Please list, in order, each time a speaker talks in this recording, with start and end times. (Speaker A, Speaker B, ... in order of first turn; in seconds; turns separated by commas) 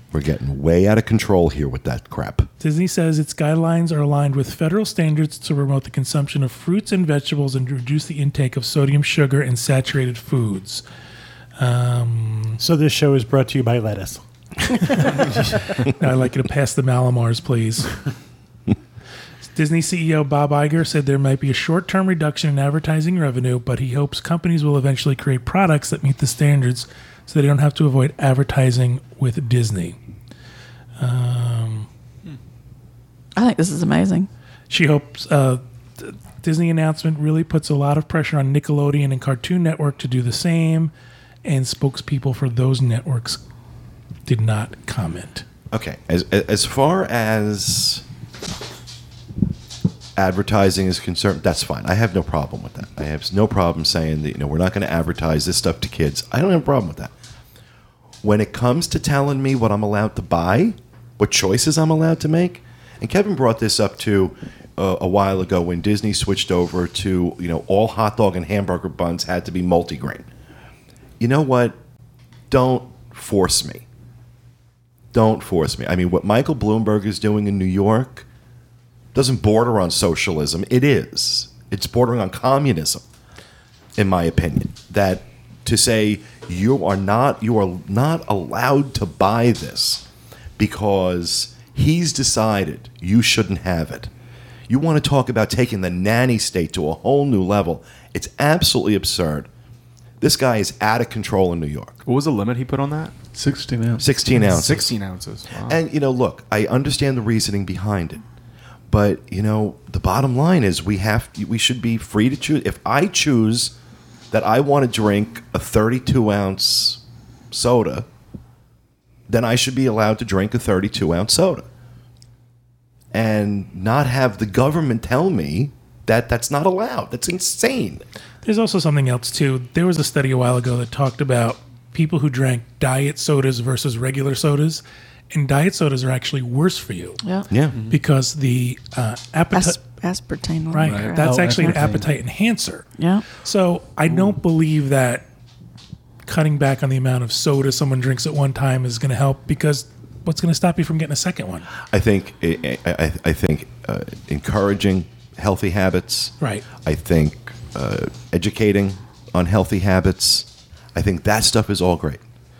Speaker A: 0.1-2.5, Speaker B: 2.6-10.8, Speaker B: 11.6-12.6, Speaker C: 12.6-15.1, Speaker B: 15.0-18.0, Speaker B: 19.6-30.0, Speaker B: 31.0-31.9, Speaker D: 33.4-34.3, Speaker B: 34.7-40.9, Speaker B: 41.4-43.4, Speaker B: 44.3-45.5, Speaker A: 45.7-48.0, Speaker A: 50.2-57.1, Speaker A: 58.2-70.2, Speaker A: 71.2-71.8, Speaker A: 72.5-73.8, Speaker A: 75.1-78.3, Speaker A: 79.1-83.0, Speaker A: 84.0-90.0, Speaker A: 90.6-94.1, Speaker A: 94.7-99.5, Speaker A: 100.2-102.0, Speaker E: 102.0-103.2, Speaker F: 103.3-104.6, Speaker A: 104.0-105.0, Speaker E: 104.4-105.8, Speaker A: 105.5-108.2, Speaker A: 108.9-113.7, Speaker A: 114.3-118.1, Speaker A: 119.3-121.7, Speaker A: 123.1-128.1, Speaker B: 128.4-137.2, Speaker D: 137.2-137.5, Speaker A: 137.5-137.8, Speaker B: 137.9-139.8, Speaker D: 139.5-141.9, Speaker B: 140.7-142.9, Speaker E: 140.8-141.2, Speaker F: 141.2-142.1, Speaker D: 143.0-143.2, Speaker B: 143.4-145.3, Speaker B: 146.3-151.7, Speaker A: 151.9-162.2, Speaker B: 156.4-156.7